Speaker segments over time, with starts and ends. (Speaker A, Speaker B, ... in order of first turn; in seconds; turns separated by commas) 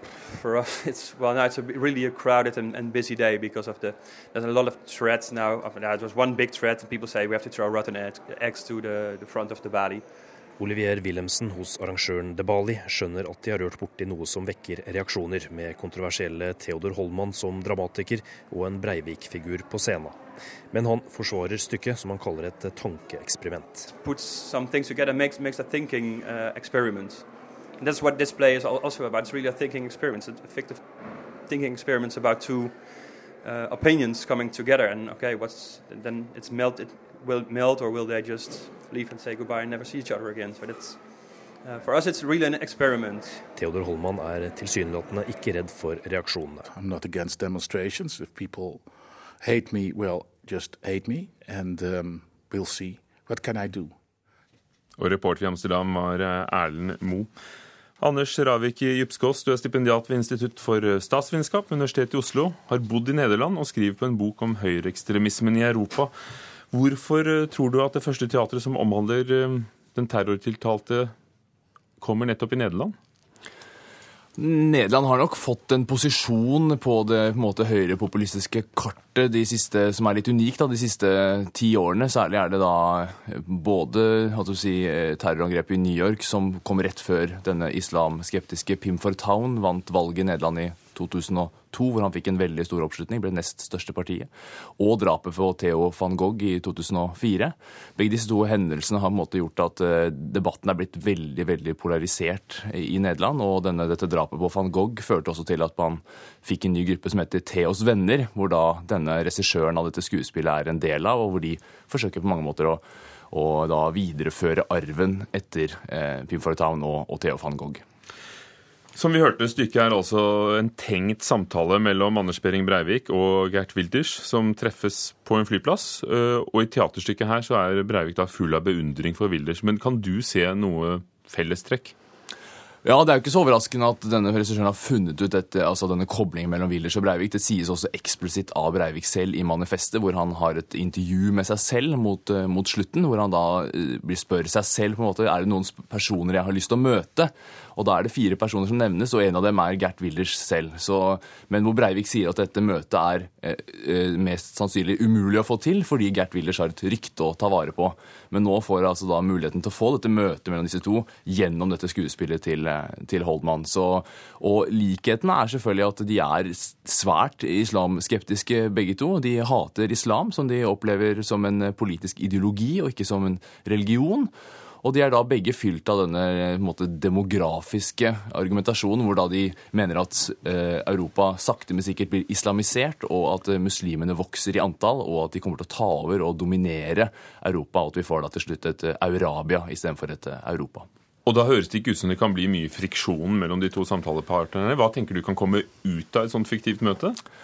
Speaker A: 0.2-10.0, Speaker B: 10.6-20.2, Speaker B: 20.7-23.9, Speaker A: 24.0-30.9, Speaker A: 31.4-41.0, Speaker A: 41.6-43.4, Speaker B: 43.5-46.7, Speaker C: 46.7-48.8, Speaker C: 49.4-53.9, Speaker D: 55.0-57.3, Speaker D: 58.0-66.1, Speaker D: 66.7-71.1, Speaker D: 72.0-72.9, Speaker E: 74.4-117.8, Speaker D: 118.9-131.9, Speaker E: 132.8-174.3, Speaker E: 174.8-190.9, Speaker D: 191.2-197.2